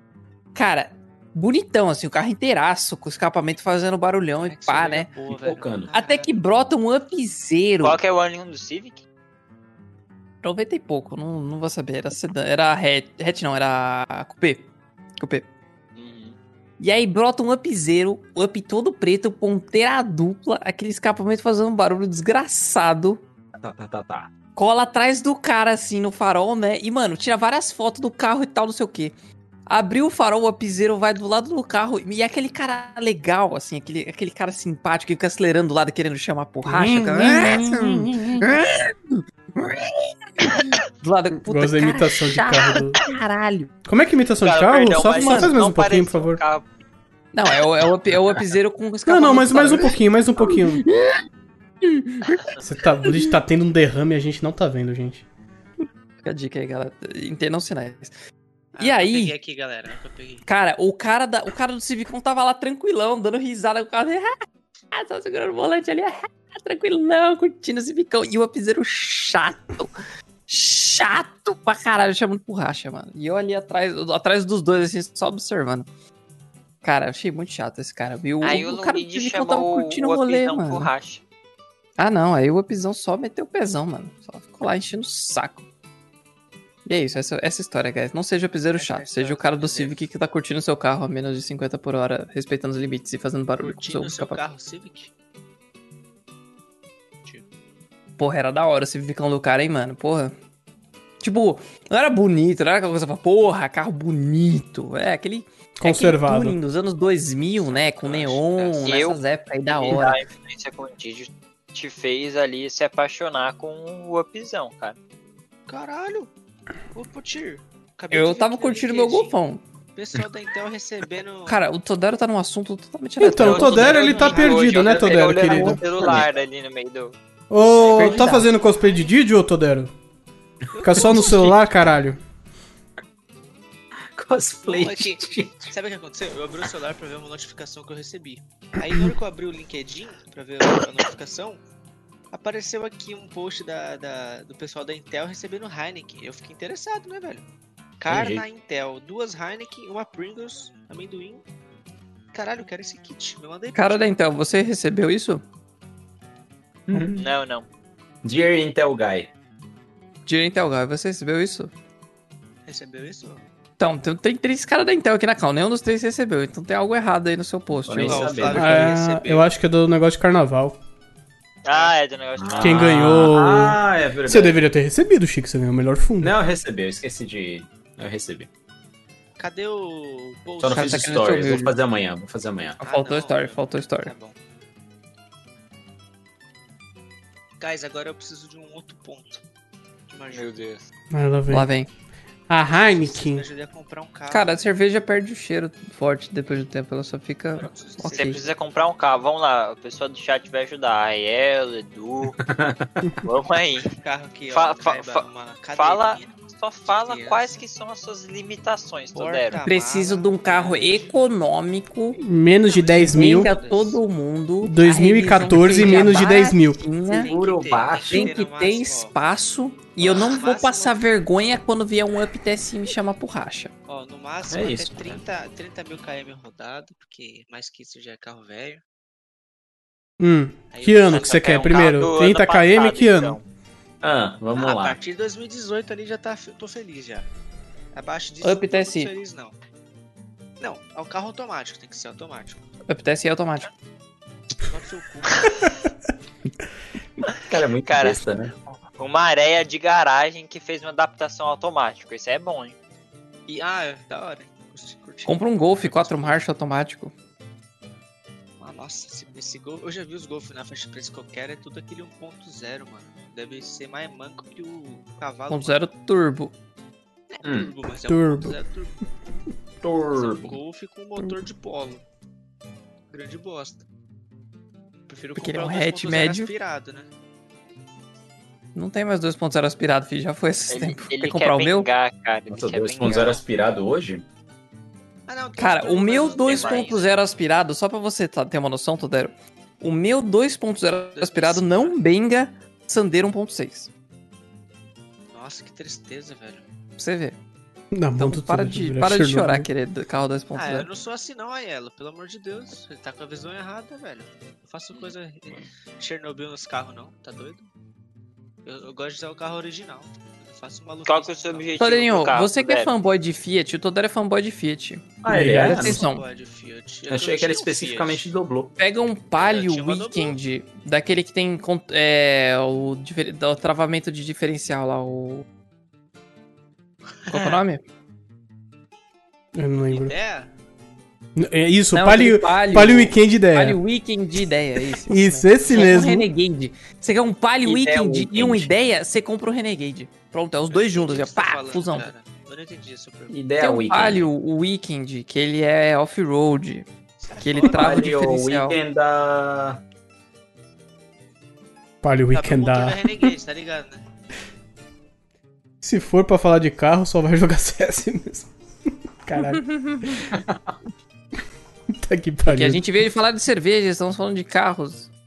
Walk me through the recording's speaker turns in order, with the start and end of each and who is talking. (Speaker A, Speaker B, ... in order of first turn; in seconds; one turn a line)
Speaker A: 0.6-5.1
Speaker B: 4.4-6.4
Speaker C: 5.3-5.9
Speaker A: 5.9-8.0
Speaker D: 7.8-9.0
Speaker A: 10.4-15.5
Speaker D: 16.0-16.4
Speaker A: 16.8-23.2
Speaker C: 23.6-24.3
Speaker A: 24.6-29.1
Speaker A: 29.7-43.7
Speaker E: 36.7-38.5
Speaker E: 41.5-43.0
Speaker E: 43.9-46.4
Speaker D: 44.4-46.6
Speaker A: 45.1-45.5
Speaker A: 47.3-51.2
Speaker E: 49.1-50.9
Speaker A: 51.8-52.4
Speaker E: 52.6-55.2
Speaker A: 53.1-53.3
Speaker A: 56.2-58.1
Speaker B: 58.8-60.5
Speaker A: 58.8-59.3
Speaker A: 60.5-64.3
Speaker A: 64.9-69.9
Speaker A: 70.5-75.9
Speaker A: 76.8-80.9
Speaker D: 78.4-81.2
Speaker A: 82.0-85.7
Speaker A: 86.9-94.4
Speaker B: 88.7-90.0
Speaker B: 93.6-95.1
Speaker A: 98.2-100.3
Speaker A: 101.2-110.2
Speaker E: 105.8-106.6
Speaker B: 107.6-109.0
Speaker D: 108.8-115.0
Speaker B: 115.7-116.3
Speaker B: 116.9-119.3
Speaker A: 118.1-119.6
Speaker B: 120.0-121.6
Speaker A: 121.5-124.0
Speaker E: 123.2-125.8
Speaker D: 123.3-127.2
Speaker B: 123.6-125.0
Speaker C: 125.5-126.3
Speaker B: 125.9-126.4
Speaker E: 127.5-129.9
Speaker B: 127.8-128.2
Speaker A: 127.8-128.5
Speaker B: 130.7-131.7
Speaker E: 130.8-132.2
Speaker C: 130.9-131.5
Speaker C: 134.2-135.7
Speaker B: 134.6-141.6
Speaker B: 142.3-147.4
Speaker B: 148.0-151.4
Speaker C: 148.1-148.4
Speaker B: 152.3-154.1
Speaker A: 153.8-155.4
Speaker C: 156.9-157.3
Speaker D: 157.2-157.7
Speaker C: 158.2-159.3
Speaker A: 160.3-161.7
Speaker B: 162.7-163.4
Speaker A: 163.8-168.6
Speaker C: 167.8-169.0
Speaker B: 168.0-169.6
Speaker E: 168.5-170.8
Speaker D: 171.6-173.1
Speaker B: 171.7-172.0
Speaker C: 172.4-174.6
Speaker E: 172.6-176.3
Speaker C: 176.2-178.5
Speaker B: 179.4-181.6
Speaker C: 180.6-182.8
Speaker A: 180.7-181.7
Speaker B: 182.8-184.4
Speaker A: 182.8-184.1
Speaker B: 187.6-189.4
Speaker B: 190.1-190.6
Speaker D: 190.3-190.8
Speaker E: 191.1-191.7
Speaker A: 191.5-191.9
Speaker E: 192.5-193.5
Speaker B: 192.9-194.5
Speaker A: 194.3-198.5
Speaker B: 197.6-198.6
Speaker D: 198.1-202.4
Speaker C: 202.4-203.0
Speaker D: 203.2-203.9
Speaker B: 203.9-207.6
Speaker D: 204.5-209.6
Speaker B: 209.1-211.1
Speaker A: 209.6-212.2
Speaker E: 212.2-213.5
Speaker B: 212.6-214.0
Speaker A: 213.1-217.3
Speaker E: 214.6-216.8
Speaker B: 215.7-216.4
Speaker B: 217.0-219.2
Speaker C: 217.2-218.4
Speaker A: 218.1-223.7
Speaker B: 220.0-221.0
Speaker B: 223.9-228.8
Speaker C: 224.5-225.2
Speaker E: 230.2-233.4
Speaker B: 230.7-231.8
Speaker D: 231.1-233.4
Speaker C: 234.0-235.0
Speaker B: 234.6-237.3
Speaker B: 237.9-239.6
Speaker A: 238.4-239.1
Speaker B: 240.6-242.6
Speaker A: 242.9-243.7
Speaker B: 244.6-245.7
Speaker C: 247.4-248.5
Speaker D: 247.8-248.2
Speaker D: 249.0-252.8
Speaker B: 253.5-256.5
Speaker A: 255.3-257.1
Speaker B: 258.6-265.8
Speaker A: 265.5-266.5
Speaker B: 267.3-269.0
Speaker C: 267.4-267.7
Speaker E: 268.1-268.6
Speaker C: 269.8-270.6
Speaker B: 270.1-272.0
Speaker B: 273.1-273.8
Speaker B: 275.1-277.1
Speaker A: 275.4-276.5
Speaker A: 278.8-281.9
Speaker D: 280.7-283.4
Speaker C: 282.5-284.2
Speaker B: 283.1-283.4
Speaker B: 285.3-287.1
Speaker A: 285.6-293.9
Speaker D: 286.2-287.1
Speaker B: 291.2-292.0
Speaker B: 295.3-296.6
Speaker A: 297.0-297.4
Speaker E: 297.9-299.7
Speaker A: 298.2-300.9
Speaker B: 300.5-307.7
Speaker B: 308.6-312.0
Speaker D: 311.1-312.9
Speaker A: 311.8-316.2
Speaker C: 315.2-316.0
Speaker E: 315.3-315.8
Speaker B: 315.6-318.2
Speaker C: 317.1-318.7
Speaker A: 318.8-325.4
Speaker B: 319.4-320.4
Speaker B: 327.3-327.6
Speaker A: 327.3-327.8
Speaker E: 329.6-330.1
Speaker B: 329.8-330.5
Speaker E: 331.4-333.8
Speaker A: 331.9-342.1
Speaker E: 334.9-336.3
Speaker C: 337.6-338.7
Speaker B: 340.7-343.4
Speaker C: 343.3-344.3
Speaker A: 343.6-348.8
Speaker B: 347.2-348.1
Speaker C: 347.7-349.8
Speaker E: 352.0-353.3
Speaker B: 352.3-354.0
Speaker E: 355.8-358.5
Speaker E: 359.2-360.3
Speaker A: 359.4-360.2
Speaker C: 360.3-360.7
Speaker E: 362.0-362.9
Speaker A: 362.4-365.1